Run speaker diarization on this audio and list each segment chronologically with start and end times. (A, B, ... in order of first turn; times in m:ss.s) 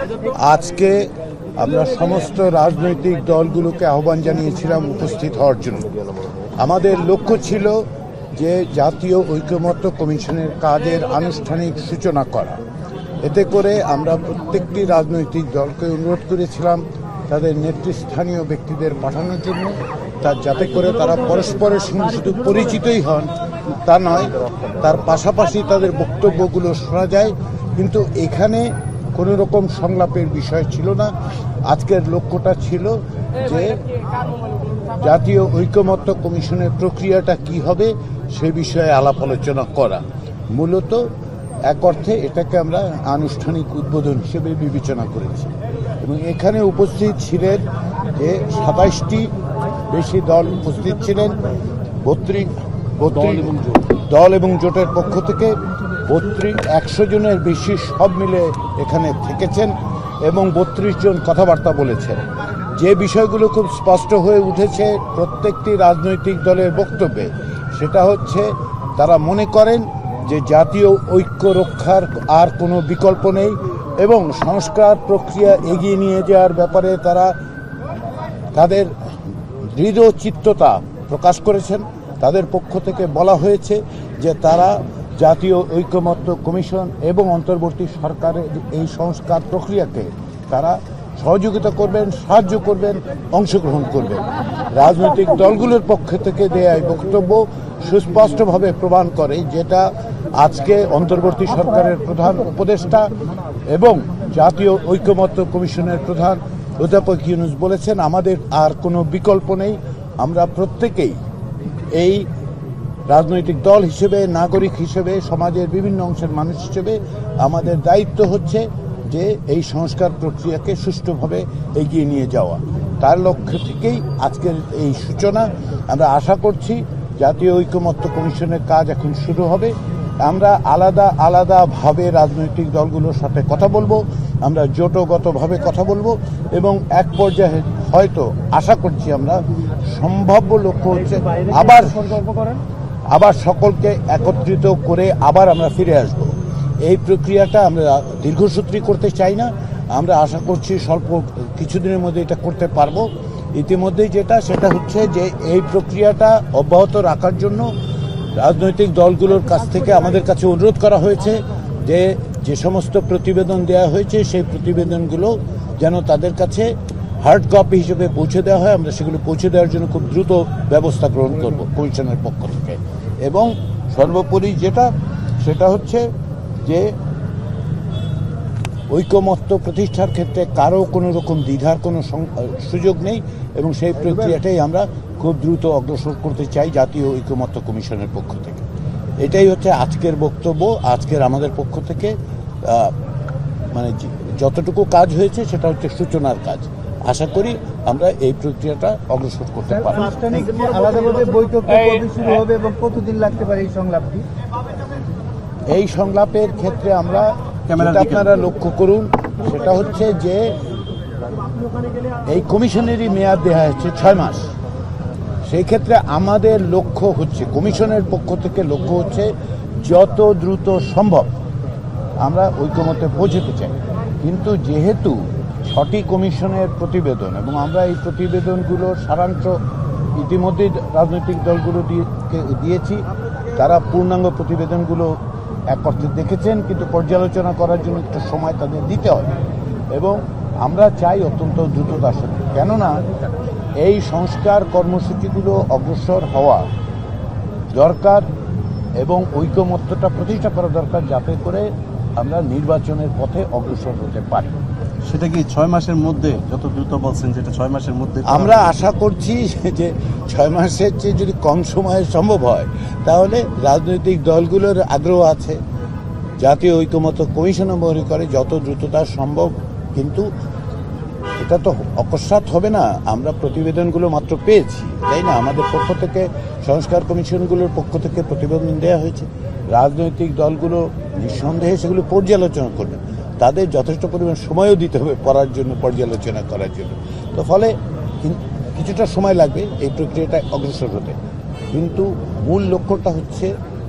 0:00.3-0:05.9 A
0:06.6-0:12.6 A
0:13.2-0:31.1 A
0:31.7-0:33.8 A
0:35.0-0:41.1 A
0:41.6-0:49.3 A
0:49.9-0:51.4 A
0:52.0-1:02.2 A
0:53.3-0:53.7 B
1:02.7-1:17.3 A
1:18.5-1:18.9 A
1:19.6-1:43.1 A
1:43.7-1:51.2 A
1:51.9-1:52.3 A
1:53.1-2:22.2 A
2:22.1-2:22.6 C
2:23.1-2:37.7 A
2:38.4-2:56.1 A
2:56.6-2:56.9 A
2:58.9-3:08.6 A
3:09.2-3:12.9 A
3:13.7-3:20.3 A
3:20.0-3:24.2 C
3:21.8-3:22.3 B
3:25.7-3:30.5 A
3:27.7-3:28.3 B
3:32.3-3:34.5 A
3:35.4-3:41.3 A
3:42.2-3:49.6 A
3:50.2-3:55.1 A
3:55.7-3:59.3 A
3:59.9-4:03.0 A
4:03.8-4:06.6 A
4:07.7-4:08.2 A
4:09.0-4:14.5 A
4:15.0-4:18.7 B
4:18.2-4:25.6 A
4:26.4-4:30.3 A
4:31.4-4:51.2 A
4:51.7-4:53.5 A